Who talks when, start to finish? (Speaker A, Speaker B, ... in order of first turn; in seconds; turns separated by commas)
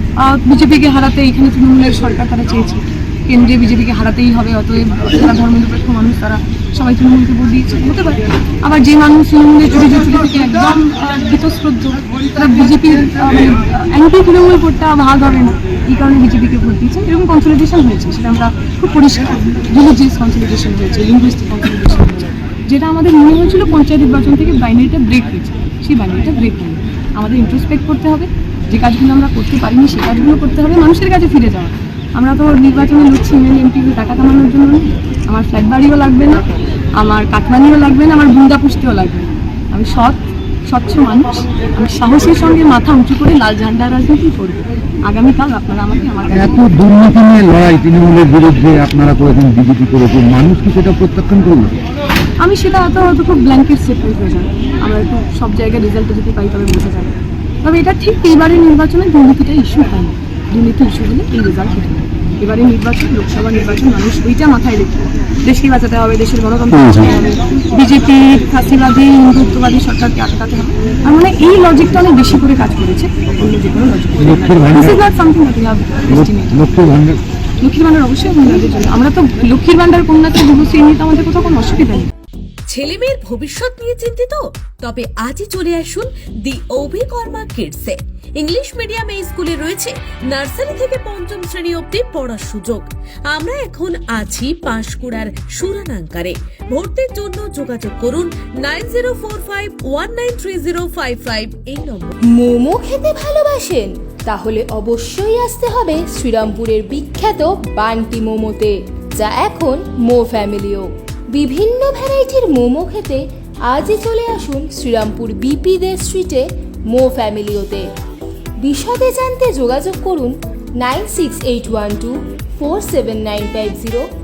Speaker A: 0.2-36.4, Speaker A: 37.0-46.8, Speaker B: 46.3-51.7, Speaker A: 52.4-76.8, Speaker B: 74.2-75.0, Speaker B: 76.1-77.2, Speaker A: 77.6-82.1, Speaker C: 82.7-102.1, Speaker D: 102.3-117.9, Speaker D: 118.6-124.0